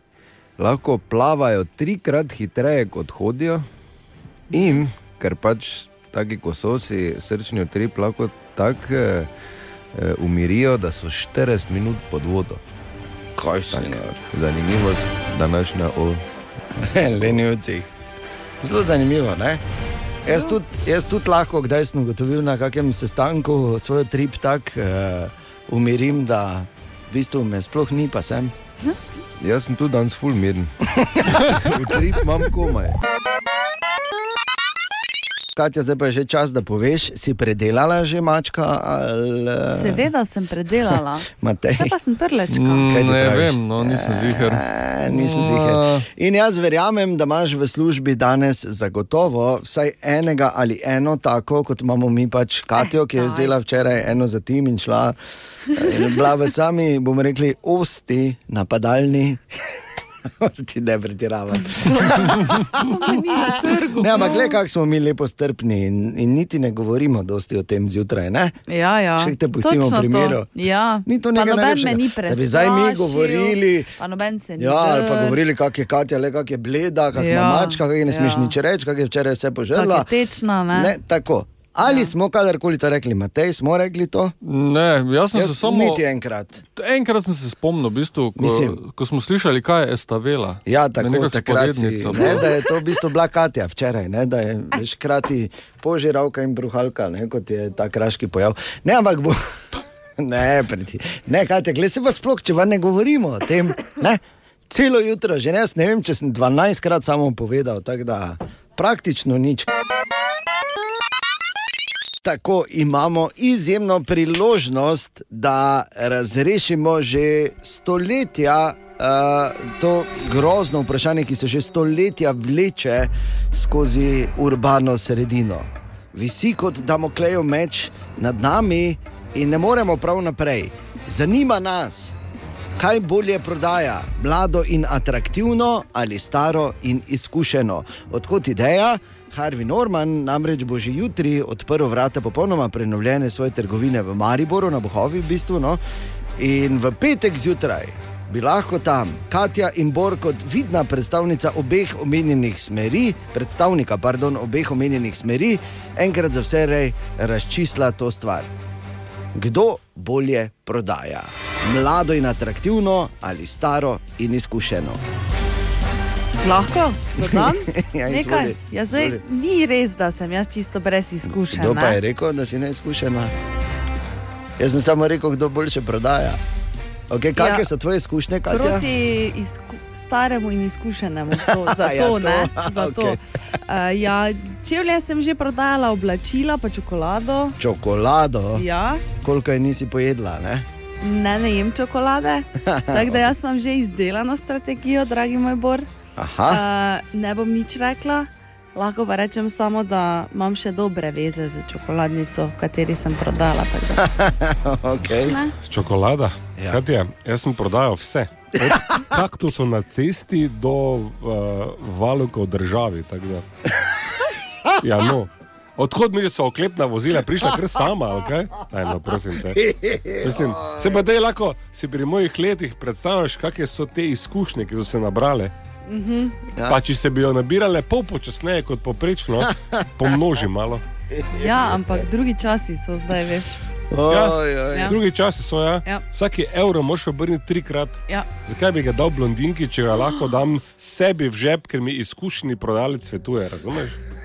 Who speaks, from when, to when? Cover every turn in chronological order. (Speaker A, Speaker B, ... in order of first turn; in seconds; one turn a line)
Speaker A: 0.6-3.6
Speaker A: 4.5-9.3
Speaker A: 9.9-12.6
Speaker B: 13.4-14.2
Speaker A: 13.7-16.2
Speaker B: 16.8-17.9
Speaker B: 18.6-19.6
Speaker B: 20.2-28.5
Speaker A: 29.4-30.7
Speaker A: 31.5-33.0
Speaker B: 35.5-40.0
Speaker C: 39.7-42.9
Speaker B: 41.3-41.9
Speaker D: 42.5-46.0
Speaker B: 42.8-55.1
Speaker C: 53.1-53.5
Speaker B: 55.7-59.4
Speaker B: 60.3-68.5
Speaker C: 61.7-64.5
Speaker C: 68.7-75.4
Speaker B: 69.2-70.5
Speaker B: 71.0-73.9
Speaker B: 74.6-80.1
Speaker C: 77.1-78.5
Speaker C: 79.7-80.9
Speaker B: 80.7-84.3
Speaker C: 81.8-82.1
Speaker D: 84.4-86.0
Speaker B: 85.3-86.6
Speaker D: 86.8-92.6
Speaker B: 88.4-88.8
Speaker B: 90.7-109.7
Speaker B: 112.2-132.2
Speaker B: 132.8-145.8
Speaker B: 146.4-158.5
Speaker B: 159.3-165.0
Speaker C: 166.4-172.0
Speaker B: 167.2-169.2
Speaker B: 171.3-173.3
Speaker B: 174.6-176.4
Speaker B: 177.1-178.9
Speaker C: 177.4-177.6
Speaker C: 178.5-187.6
Speaker B: 181.5-183.2
Speaker B: 187.6-188.6
Speaker C: 188.5-189.0
Speaker B: 189.2-190.7
Speaker C: 191.0-195.9
Speaker B: 192.6-193.2
Speaker B: 196.2-196.6
Speaker C: 196.5-204.1
Speaker B: 204.0-205.4
Speaker E: 205.6-213.4
Speaker B: 206.6-206.8
Speaker B: 208.6-209.0
Speaker E: 214.8-219.6
Speaker B: 219.3-221.0
Speaker E: 220.2-225.5
Speaker C: 225.9-226.3
Speaker B: 226.6-226.8
Speaker E: 226.7-230.8
Speaker B: 229.5-229.8
Speaker B: 231.1-232.1
Speaker C: 231.4-233.6
Speaker B: 233.9-235.0
Speaker E: 234.1-244.0
Speaker C: 234.7-235.0